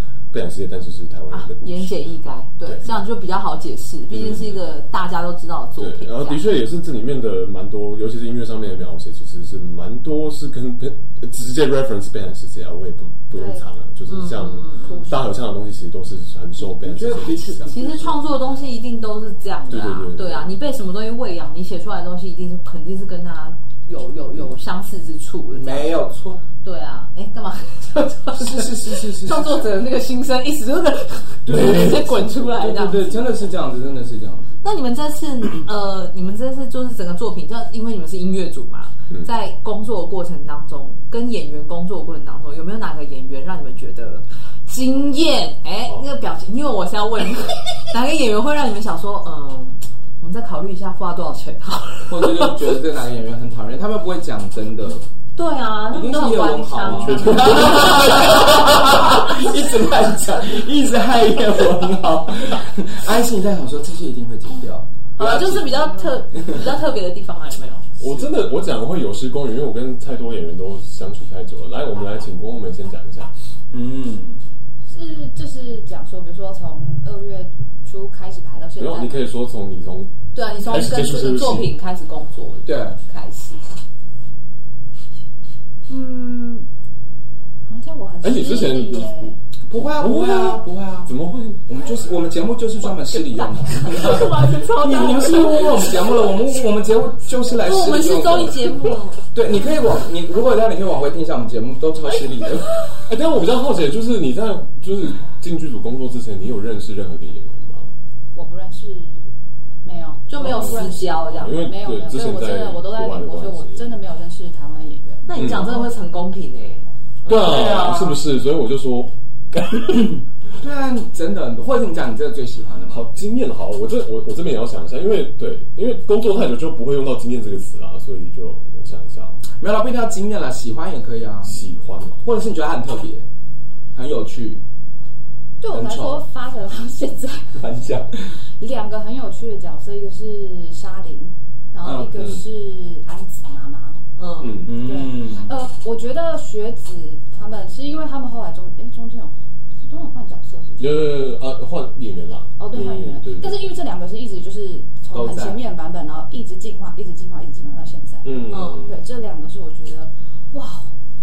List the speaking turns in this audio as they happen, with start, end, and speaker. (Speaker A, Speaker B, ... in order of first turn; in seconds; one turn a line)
Speaker A: 0.3-2.9
Speaker B: 1.3-6.4
Speaker A: 4.1-4.7
Speaker A: 5.8-17.7
Speaker C: 13.3-13.6
Speaker B: 14.1-15.1
Speaker C: 14.8-15.3
Speaker D: 16.6-18.2
Speaker B: 17.7-26.0
Speaker A: 19.7-20.6
Speaker D: 25.5-26.4
Speaker B: 26.6-33.5
Speaker D: 28.3-29.7
Speaker D: 31.4-34.6
Speaker A: 31.5-31.9
Speaker B: 34.6-52.5
Speaker D: 52.1-55.1
Speaker B: 55.4-58.6
Speaker D: 55.9-66.6
Speaker A: 56.9-59.2
Speaker B: 65.2-67.8
Speaker A: 68.0-73.3
Speaker D: 73.7-74.4
Speaker C: 74.9-79.2
Speaker A: 78.8-80.1
Speaker B: 80.3-83.7
Speaker A: 80.6-81.7
Speaker D: 82.7-83.0
Speaker C: 85.9-86.7
Speaker C: 87.7-89.4
Speaker A: 88.2-91.6
Speaker D: 89.7-91.1
Speaker D: 91.7-98.8
Speaker B: 93.0-96.3
Speaker B: 97.5-99.2
Speaker D: 99.3-102.8
Speaker A: 103.0-107.9
Speaker C: 108.3-109.3
Speaker C: 109.8-115.6
Speaker B: 110.3-111.7
Speaker A: 110.4-113.9
Speaker B: 115.2-117.6
Speaker A: 115.3-115.7
Speaker A: 117.2-120.1
Speaker D: 117.3-118.2
Speaker D: 120.6-123.0
Speaker A: 122.9-129.4
Speaker D: 129.6-131.6
Speaker A: 131.4-132.2
Speaker D: 132.2-133.3
Speaker D: 133.9-134.6
Speaker C: 135.6-137.6
Speaker D: 135.7-136.2
Speaker D: 137.5-138.3
Speaker C: 138.6-144.0
Speaker D: 141.8-142.3
Speaker B: 144.2-144.7
Speaker A: 144.4-144.8
Speaker D: 144.6-145.5
Speaker C: 144.7-151.3
Speaker A: 150.8-153.7
Speaker C: 152.6-160.9
Speaker D: 155.1-155.6
Speaker A: 158.2-159.0
Speaker B: 158.5-158.9